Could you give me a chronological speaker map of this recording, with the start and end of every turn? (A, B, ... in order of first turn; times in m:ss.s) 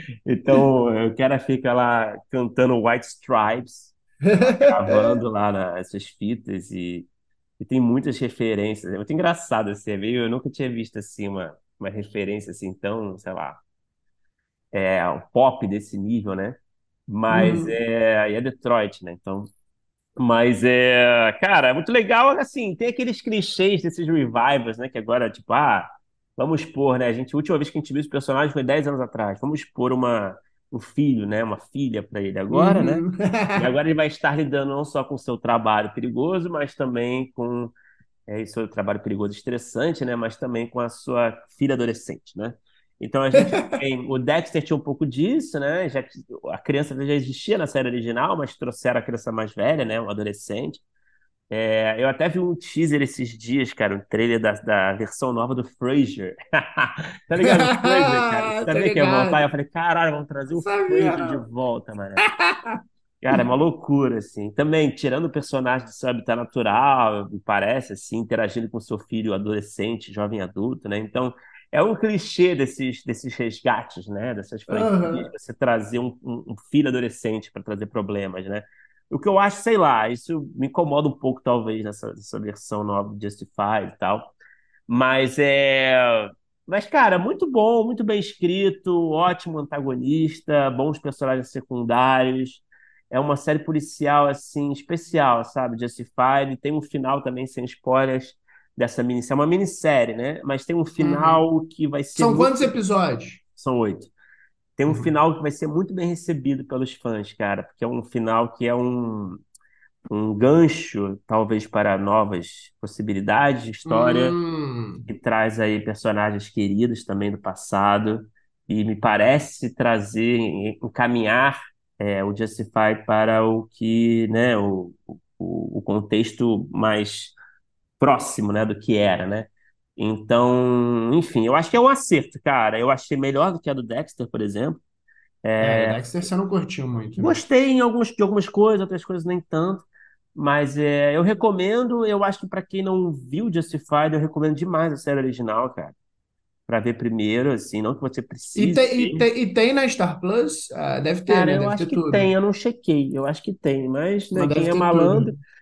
0:00.2-0:03.9 A
0:04.2-0:05.1 B
0:04.6-0:07.1 A
0:07.6-0:13.6 A
0:14.7-0:19.5 A
0:17.3-0:17.7 B
0:20.2-0:33.0 A
0:32.5-0:33.7 B
0:33.5-0:37.7 A
0:38.3-0:50.8 A
0:43.3-0:43.7 B
0:51.5-1:02.2 A
0:57.4-0:59.5 B
1:00.5-1:01.4 B
1:02.2-1:02.8 B
1:03.2-1:24.3 A
1:14.7-1:15.3 B
1:24.9-1:42.7 A
1:41.0-1:41.4 B
1:42.2-1:43.4 B
1:43.6-1:44.1 A
1:44.8-1:49.4 A
1:50.1-1:54.4 A
1:53.8-1:55.1 B
1:55.1-2:07.3 A
2:08.0-2:14.8 A
2:15.4-2:16.0 A
2:15.6-2:17.4 B
2:17.2-2:25.9 A
2:26.7-2:29.3 A
2:28.6-2:32.3 B
2:31.3-2:35.4 A
2:34.3-2:35.3 B